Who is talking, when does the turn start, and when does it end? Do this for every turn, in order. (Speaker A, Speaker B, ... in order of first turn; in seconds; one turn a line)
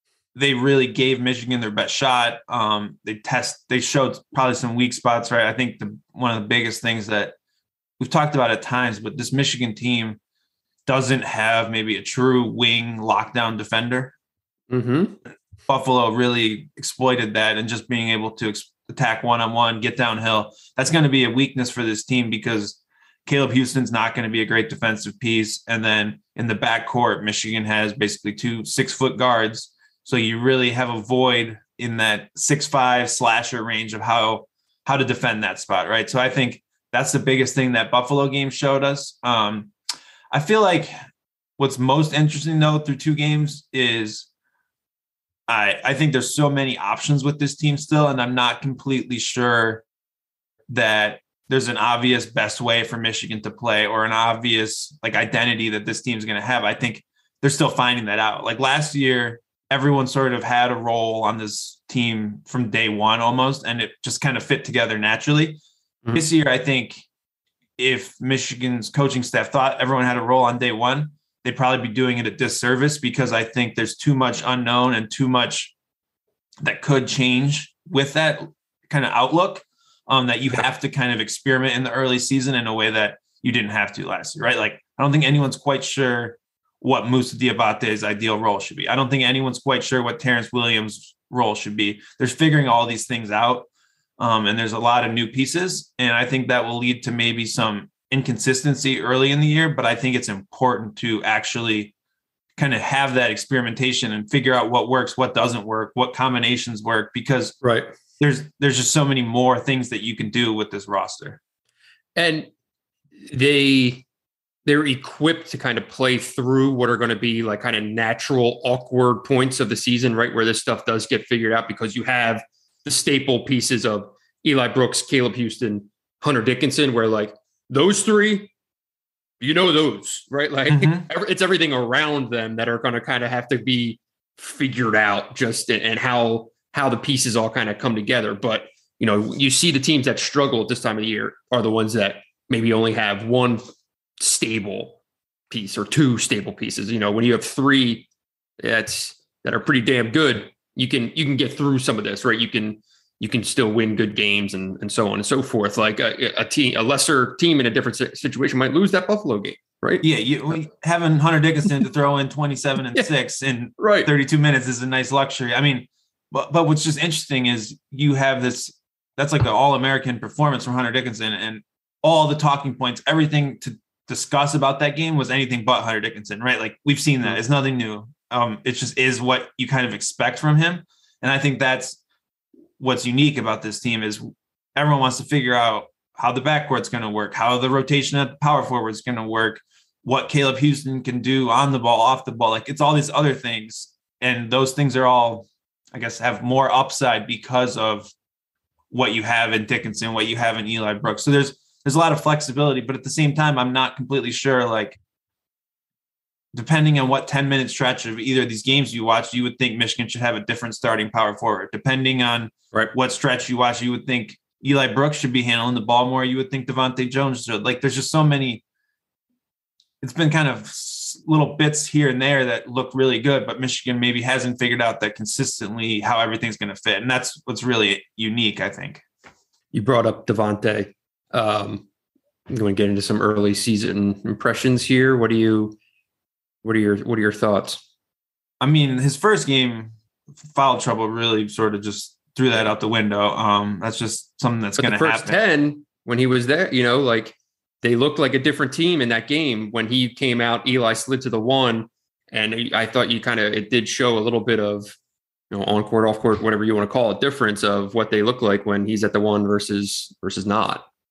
Speaker A: 0.3-7.3
Speaker A: 8.0-10.2
Speaker A: 10.9-14.1
Speaker B: 14.7-15.2
Speaker A: 15.7-39.7
Speaker A: 40.3-40.9
Speaker A: 41.6-44.3
Speaker A: 45.5-49.8
Speaker A: 50.7-65.6
Speaker A: 66.1-67.0
Speaker A: 67.8-75.7
Speaker A: 76.6-93.7
Speaker A: 94.2-101.9
Speaker A: 102.6-107.6
Speaker B: 107.6-107.9
Speaker A: 108.2-111.4
Speaker B: 112.2-112.5
Speaker B: 113.3-114.0
Speaker B: 114.7-128.5
Speaker B: 129.4-143.6
Speaker A: 130.7-131.1
Speaker B: 144.2-145.0
Speaker B: 145.5-148.1
Speaker B: 148.6-160.1
Speaker A: 160.0-182.0
Speaker B: 163.8-164.1
Speaker A: 182.8-198.1
Speaker A: 198.9-205.0
Speaker A: 206.5-218.6
Speaker A: 220.0-229.0
Speaker B: 229.7-231.8
Speaker B: 232.5-235.8
Speaker B: 236.6-237.8
Speaker A: 238.6-239.9
Speaker A: 240.5-245.3
Speaker B: 244.8-254.9
Speaker B: 255.5-260.8